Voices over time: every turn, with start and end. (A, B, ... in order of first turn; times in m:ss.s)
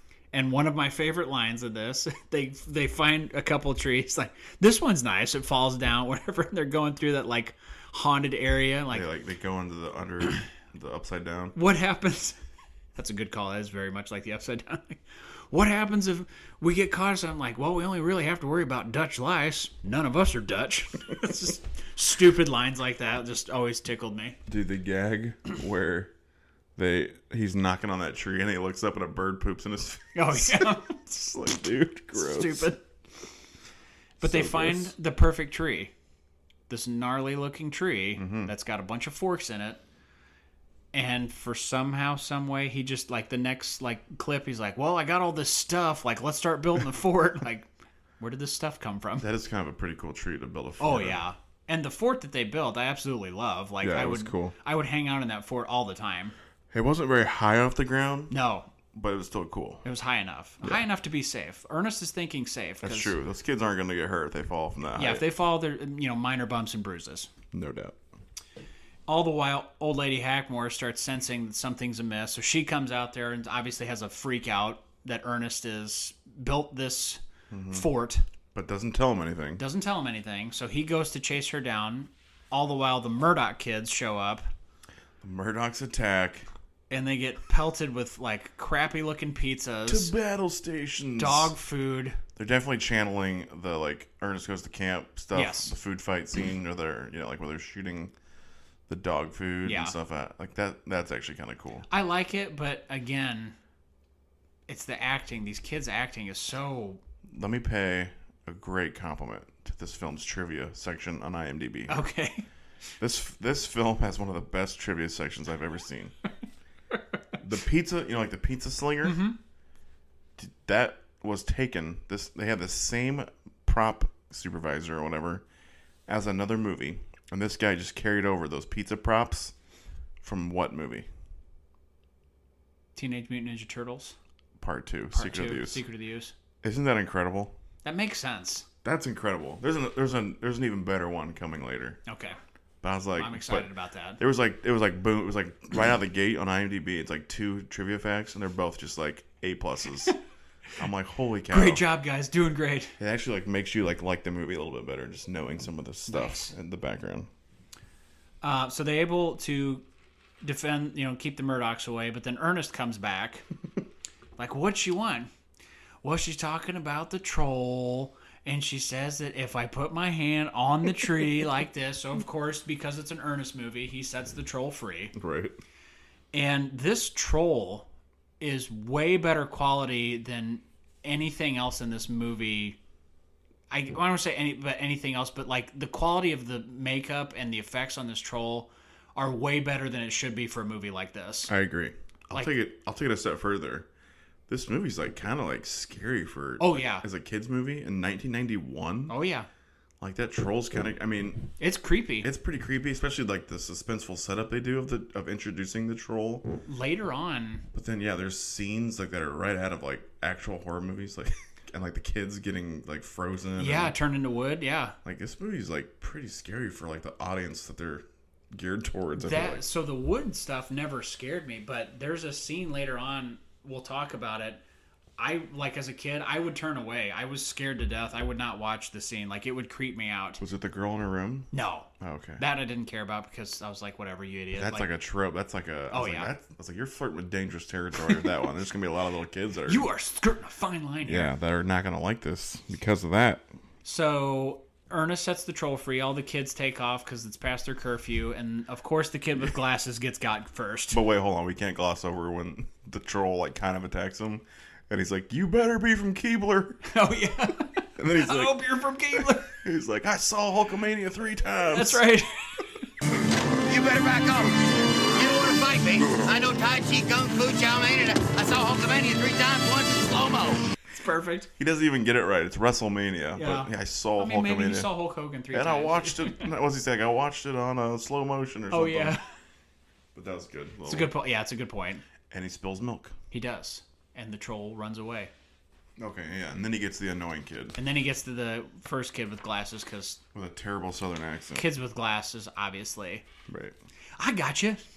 0:00.3-0:09.1 A
0:08.9-0:11.6 B
0:11.6-0:12.4 A
0:13.0-0:24.4 A
0:24.5-0:26.1 B
0:26.8-0:32.7 B
0:30.2-0:31.3 A
0:32.1-0:32.8 A
0:34.2-0:34.9 B
0:34.2-0:35.9 A
0:36.7-0:39.8 A
0:38.2-0:38.5 B
0:40.9-0:47.7 A
0:48.2-0:49.3 A
0:49.2-0:51.2 B
0:50.8-0:56.4 A
0:53.8-0:54.6 B
0:56.7-0:58.3 B
0:58.3-0:58.7 A
0:58.9-0:59.8 B
0:59.8-1:03.1 A
1:02.8-1:05.3 B
1:05.0-1:07.3 A
1:07.5-1:08.0 B
1:09.1-1:18.2 A
1:17.5-1:17.9 B
1:18.5-1:19.6 B
1:19.6-1:24.5 A
1:25.2-1:26.5 B
1:26.9-1:30.1 A
1:29.9-1:31.6 B
1:31.2-1:32.2 A
1:32.4-1:38.1 B
1:35.3-1:35.8 A
1:38.9-1:41.9 B
1:39.6-1:40.0 A
1:41.9-1:43.6 A
1:44.7-1:47.0 A
1:47.3-1:52.0 B
1:51.9-1:52.5 A
1:53.0-1:56.2 B
1:57.4-1:59.2 B
1:59.0-1:59.4 A
2:00.4-2:05.4 B
2:06.1-2:09.5 B
2:10.2-2:11.1 B
2:13.0-2:14.2 A
2:14.6-2:15.8 B
2:15.1-2:16.3 A
2:16.6-2:17.6 B
2:17.8-2:18.7 A
2:18.8-2:22.0 B
2:22.1-2:22.4 A
2:22.8-2:30.2 B
2:23.2-2:24.2 A
2:30.8-2:31.8 B
2:31.5-2:33.0 A
2:33.0-2:37.3 B
2:36.1-2:36.5 A
2:38.4-2:39.8 A
2:40.4-2:43.4 A
2:44.4-2:45.3 A
2:46.0-2:55.2 A
2:55.2-2:55.6 B
2:56.3-2:57.9 A
2:58.4-3:02.8 A
3:03.7-3:11.5 A
3:11.5-3:13.9 B
3:14.5-3:19.2 B
3:16.6-3:17.0 A
3:19.1-3:19.5 A
3:20.0-3:21.5 B
3:21.6-3:22.3 A
3:22.2-3:26.6 B
3:26.7-3:27.7 A
3:27.7-3:34.0 B
3:33.6-3:35.0 A
3:35.0-3:39.6 B
3:39.2-3:44.6 A
3:45.2-3:50.4 A
3:50.4-3:52.4 B
3:51.5-3:54.9 A
3:54.5-3:59.9 B
3:55.9-3:56.3 A
3:59.7-4:01.3 A
4:01.0-4:03.5 B
4:03.8-4:11.0 A
4:10.9-4:16.9 B
4:16.9-4:19.6 A
4:18.0-4:22.0 B
4:21.7-4:22.9 A
4:23.7-4:30.7 C
4:30.9-4:31.5 A
4:31.6-4:34.9 B
4:33.4-4:36.5 A
4:35.5-4:39.2 B
4:38.7-4:39.3 A
4:40.2-4:41.1 B
4:40.9-4:42.0 A
4:42.3-4:43.2 B
4:43.3-4:45.3 A
4:46.0-4:47.8 B
4:47.8-4:50.2 A
4:50.3-4:51.6 B
4:51.6-4:53.2 A
4:53.5-4:53.8 B
4:54.2-4:54.8 A